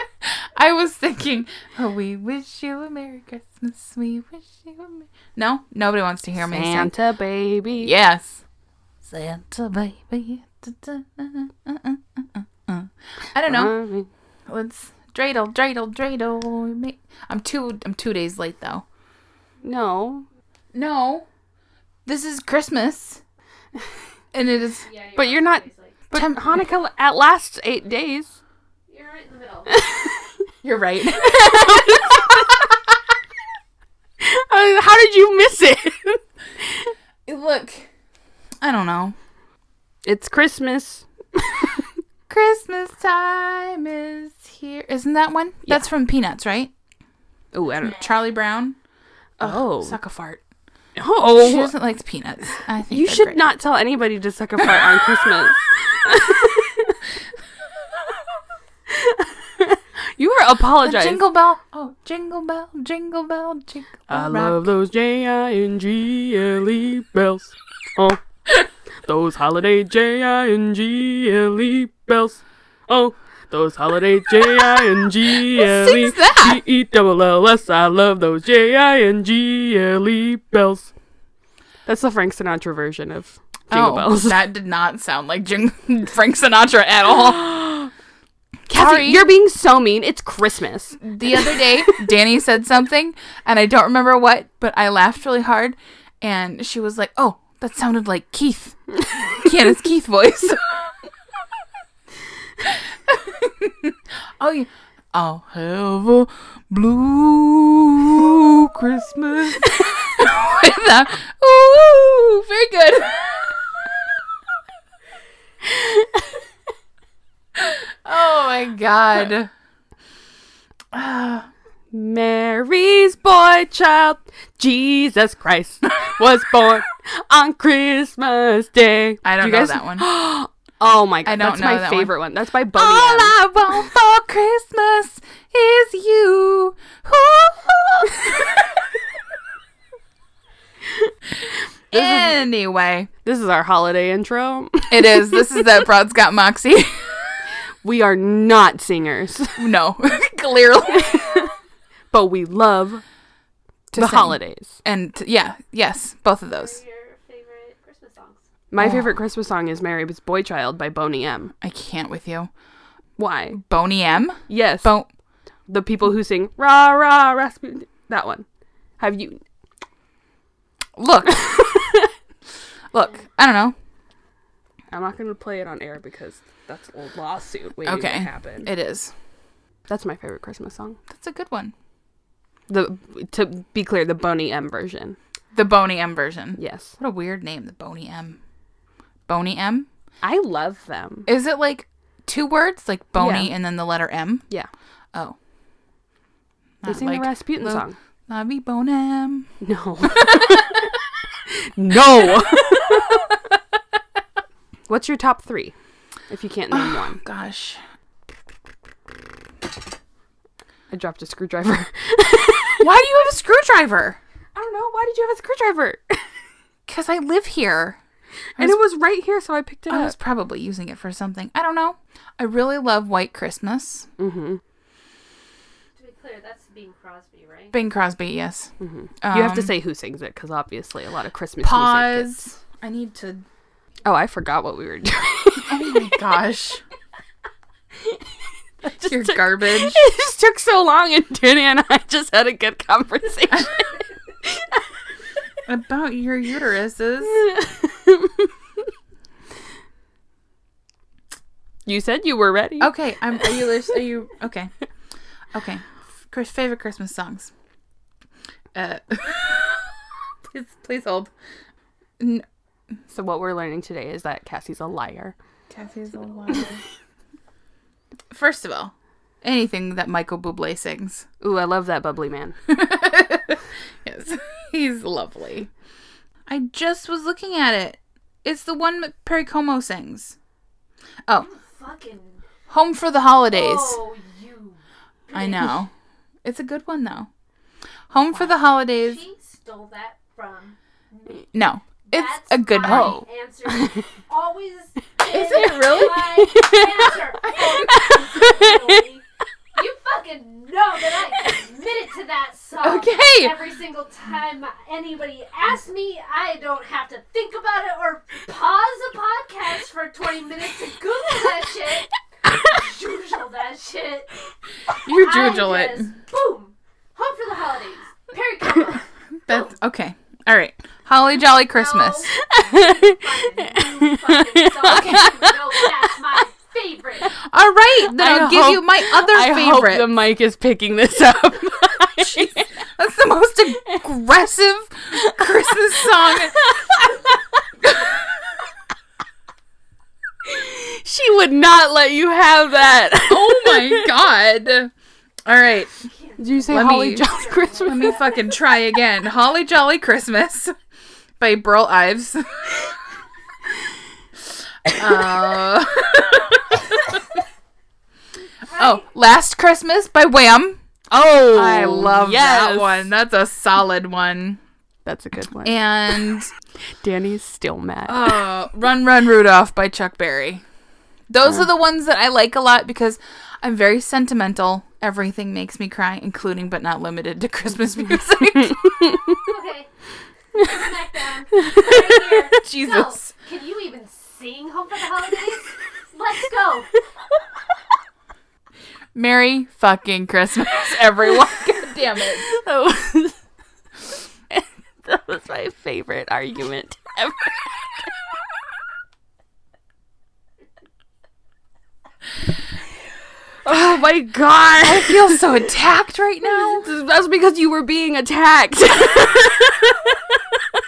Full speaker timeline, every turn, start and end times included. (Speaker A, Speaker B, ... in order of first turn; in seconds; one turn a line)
Speaker A: 0.2-6.9
Speaker B: 6.5-7.9
Speaker A: 7.8-8.4
Speaker A: 9.0-13.7
Speaker B: 13.5-14.1
Speaker A: 14.5-18.8
Speaker B: 19.6-20.3
Speaker A: 20.7-21.3
Speaker A: 22.1-23.2
Speaker A: 24.3-24.9
Speaker C: 24.8-26.0
Speaker B: 25.2-28.4
Speaker A: 26.1-26.4
Speaker C: 28.9-29.8
Speaker B: 29.7-30.1
Speaker A: 30.6-31.6
Speaker B: 31.2-32.5
Speaker B: 34.2-36.9
Speaker A: 37.3-37.9
Speaker A: 38.6-39.1
Speaker B: 40.0-41.8
Speaker A: 42.3-46.7
Speaker B: 47.5-48.0
Speaker A: 47.8-48.8
Speaker A: 49.4-50.4
Speaker B: 49.4-50.0
Speaker B: 51.0-51.7
Speaker A: 51.4-53.4
Speaker B: 52.9-57.0
Speaker B: 58.9-61.2
Speaker A: 60.8-64.7
Speaker B: 64.1-68.2
Speaker B: 69.0-80.9
Speaker A: 75.6-76.6
Speaker B: 81.9-84.4
Speaker A: 83.7-87.4
Speaker B: 87.2-87.9
Speaker A: 88.7-89.3
Speaker B: 88.7-92.0
Speaker A: 91.0-100.8
Speaker A: 102.7-113.5
Speaker A: 117.6-119.5
Speaker A: 120.9-121.5
Speaker B: 121.9-133.3
Speaker A: 129.2-130.1
Speaker A: 131.3-132.1
Speaker A: 132.8-138.6
Speaker A: 141.9-143.1
Speaker B: 141.9-142.4
Speaker B: 143.2-145.5
Speaker A: 144.9-147.2
Speaker B: 147.8-149.7
Speaker A: 149.6-151.2
Speaker B: 151.0-151.5
Speaker B: 152.1-153.0
Speaker B: 153.9-154.8
Speaker A: 153.9-156.8
Speaker C: 156.5-158.4
Speaker B: 158.7-161.5
Speaker A: 158.8-159.1
Speaker A: 161.6-162.5
Speaker B: 163.2-163.6
Speaker A: 163.5-165.1
Speaker B: 164.5-165.1
Speaker B: 165.7-168.5
Speaker B: 169.0-169.4
Speaker A: 171.0-171.6
Speaker B: 171.4-172.0
Speaker A: 172.9-173.8
Speaker B: 174.9-178.7
Speaker A: 177.8-179.1
Speaker B: 179.9-181.0
Speaker A: 181.1-181.7
Speaker B: 182.7-185.2
Speaker A: 185.5-188.4
Speaker B: 186.6-186.9
Speaker A: 189.3-189.9
Speaker B: 190.2-191.3
Speaker A: 191.3-194.5
Speaker B: 193.2-193.5
Speaker A: 196.8-199.5
Speaker B: 196.8-198.0
Speaker B: 199.6-200.7
Speaker B: 201.8-203.2
Speaker B: 204.9-207.2
Speaker A: 206.7-207.8
Speaker B: 210.9-212.8
Speaker A: 212.8-214.2
Speaker B: 214.6-216.4
Speaker A: 216.9-218.0
Speaker B: 218.6-220.2
Speaker A: 219.9-224.1
Speaker B: 224.2-224.6
Speaker C: 226.0-227.8
Speaker A: 227.7-229.7
Speaker B: 228.8-232.3
Speaker A: 231.6-233.4
Speaker B: 234.1-236.1
Speaker A: 235.7-236.8
Speaker B: 238.8-244.7
Speaker A: 239.1-240.0
Speaker A: 245.7-247.4
Speaker B: 247.3-248.5
Speaker B: 251.9-253.5
Speaker A: 252.8-254.7
Speaker A: 255.5-257.5
Speaker A: 258.7-259.8
Speaker A: 260.5-261.3
Speaker A: 262.2-262.4
Speaker B: 263.1-265.4
Speaker A: 265.7-266.8
Speaker A: 268.3-271.3
Speaker B: 271.4-272.6
Speaker A: 272.7-275.7
Speaker A: 276.5-280.4
Speaker C: 281.4-282.4
Speaker A: 282.7-284.0
Speaker C: 283.5-284.8
Speaker C: 285.3-285.7
Speaker A: 285.3-285.9
Speaker A: 286.4-287.3
Speaker A: 288.1-289.2
Speaker C: 288.9-314.5
Speaker A: 291.5-293.2
Speaker B: 292.9-293.2
Speaker A: 295.2-296.5
Speaker B: 296.4-296.9
Speaker B: 297.9-298.8
Speaker A: 302.8-303.6
Speaker A: 315.1-316.1
Speaker C: 315.1-319.5
Speaker A: 319.5-322.3
Speaker C: 321.7-327.4
Speaker B: 322.4-325.9
Speaker A: 324.9-325.3
Speaker A: 327.4-330.1
Speaker B: 328.1-332.7
Speaker A: 332.2-336.6
Speaker B: 335.1-337.2
Speaker B: 340.5-344.1
Speaker A: 343.3-344.9
Speaker A: 345.4-345.9
Speaker C: 346.1-348.5
Speaker B: 346.4-348.1
Speaker A: 346.7-347.2
Speaker A: 347.9-350.8
Speaker A: 351.4-352.7
Speaker A: 355.0-356.7
Speaker C: 358.7-359.0
Speaker A: 358.8-360.8
Speaker B: 361.1-363.1
Speaker A: 361.5-364.6
Speaker B: 365.1-366.3
Speaker A: 365.6-366.5
Speaker B: 367.0-368.4
Speaker A: 368.1-370.6
Speaker A: 371.3-379.1
Speaker B: 378.7-379.2
Speaker C: 379.4-379.9
Speaker C: 380.6-386.9
Speaker A: 382.6-383.3
Speaker A: 389.1-392.4
Speaker B: 392.4-393.4
Speaker B: 394.5-398.1
Speaker B: 403.6-405.4
Speaker A: 404.8-406.9
Speaker B: 406.5-410.4